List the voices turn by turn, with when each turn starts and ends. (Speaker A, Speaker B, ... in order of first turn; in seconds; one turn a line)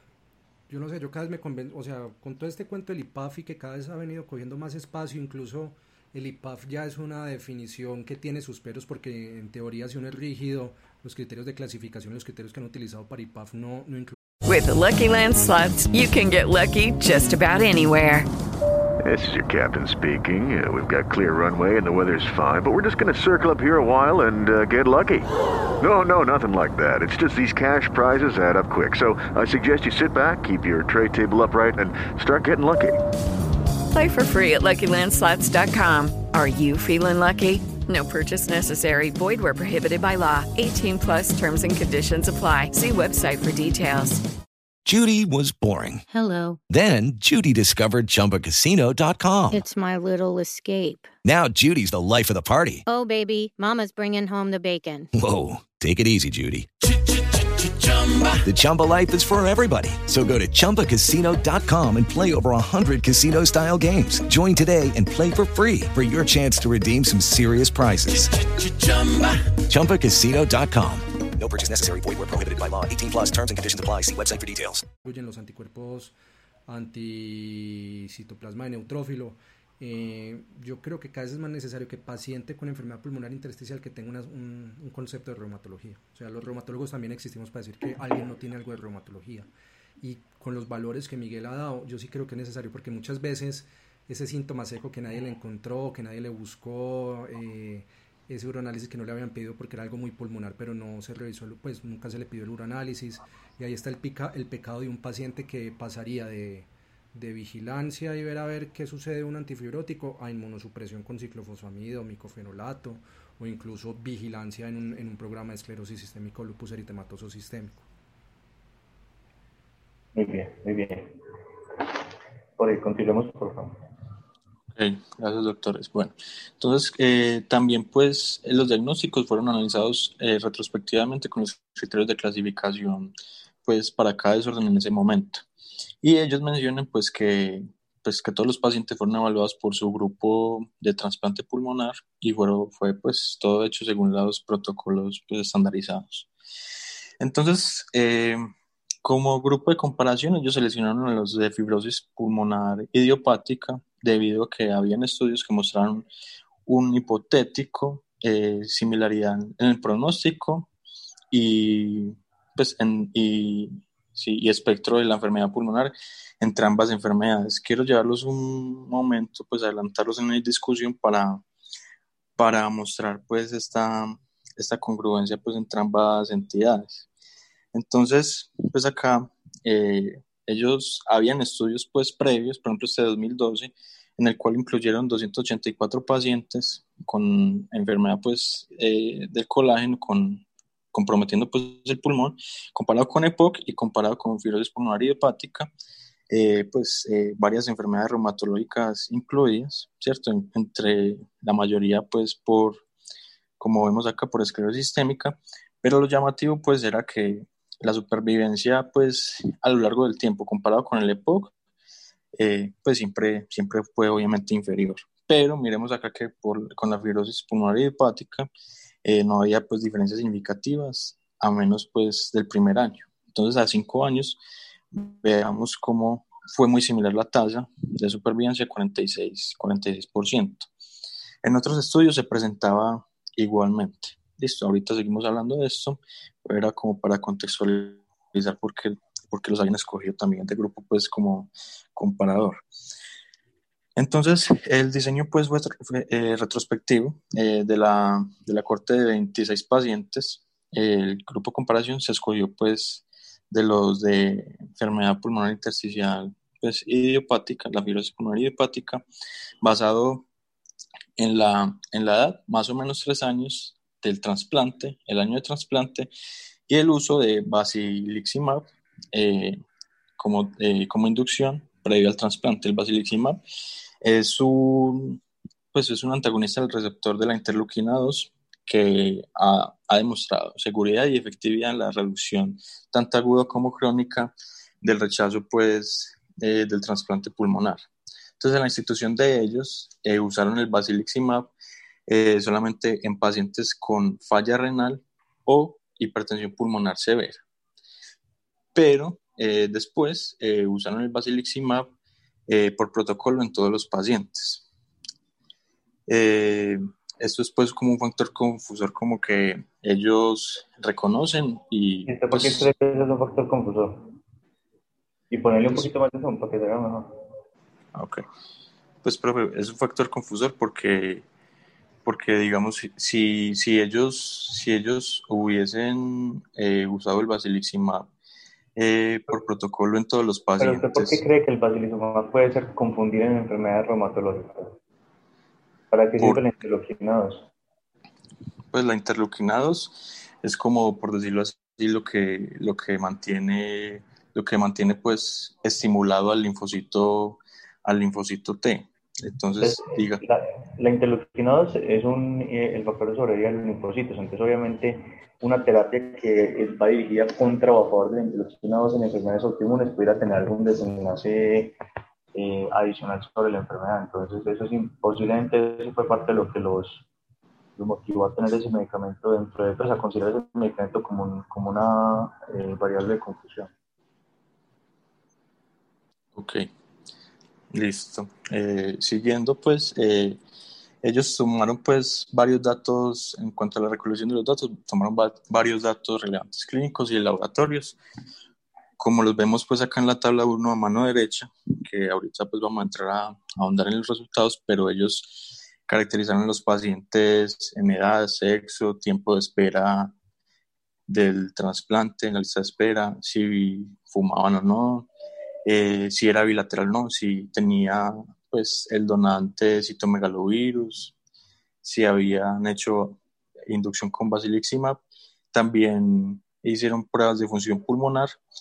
Speaker A: 0.7-14.2
Speaker B: 14.4-18.3
Speaker C: 19.0-33.0
Speaker B: 33.9-44.2
Speaker D: 44.9-46.1
Speaker E: 46.1-46.6
Speaker D: 46.7-49.6
Speaker E: 49.5-51.1
Speaker D: 51.2-52.8
Speaker E: 52.9-55.1
Speaker D: 55.1-56.7
Speaker D: 58.4-68.5
Speaker D: 69.6-71.1
Speaker F: 71.4-74.8
Speaker A: 75.0-76.1
Speaker A: 76.7-89.5
Speaker A: 90.0-117.8
Speaker G: 120.2-121.2
Speaker G: 122.6-123.8
Speaker H: 124.8-133.1
Speaker H: 133.6-135.4
Speaker H: 136.0-146.3
Speaker H: 147.2-148.5
Speaker H: 149.0-156.1
Speaker H: 156.7-160.7
Speaker H: 161.3-171.4
Speaker H: 172.4-177.1
Speaker H: 177.7-195.7
Speaker H: 196.3-202.8
Speaker H: 203.6-211.5
Speaker H: 212.3-218.5
Speaker H: 219.0-224.4
Speaker H: 224.9-230.7
Speaker H: 231.4-242.6
Speaker H: 244.0-259.0
Speaker H: 259.6-260.3
Speaker H: 261.2-266.1
Speaker H: 266.7-269.6
Speaker H: 270.2-273.4
Speaker H: 274.0-275.2
Speaker H: 275.7-287.9
Speaker H: 288.4-291.5
Speaker H: 292.1-297.4
Speaker H: 298.7-301.9
Speaker H: 302.5-304.7
Speaker H: 306.1-312.7
Speaker G: 312.1-314.2
Speaker G: 315.3-317.1
Speaker H: 317.9-318.2
Speaker H: 319.0-321.3
Speaker H: 322.0-328.1
Speaker H: 328.8-331.2
Speaker G: 330.6-334.8
Speaker G: 335.9-337.5
Speaker H: 338.7-350.2
Speaker G: 349.6-361.8
Speaker G: 362.4-367.1
Speaker G: 367.8-373.7
Speaker H: 376.4-376.7
Speaker H: 377.7-380.4
Speaker H: 381.0-388.0
Speaker H: 389.0-400.1
Speaker H: 401.1-405.1
Speaker H: 405.6-411.1
Speaker H: 411.8-415.0
Speaker H: 415.5-418.4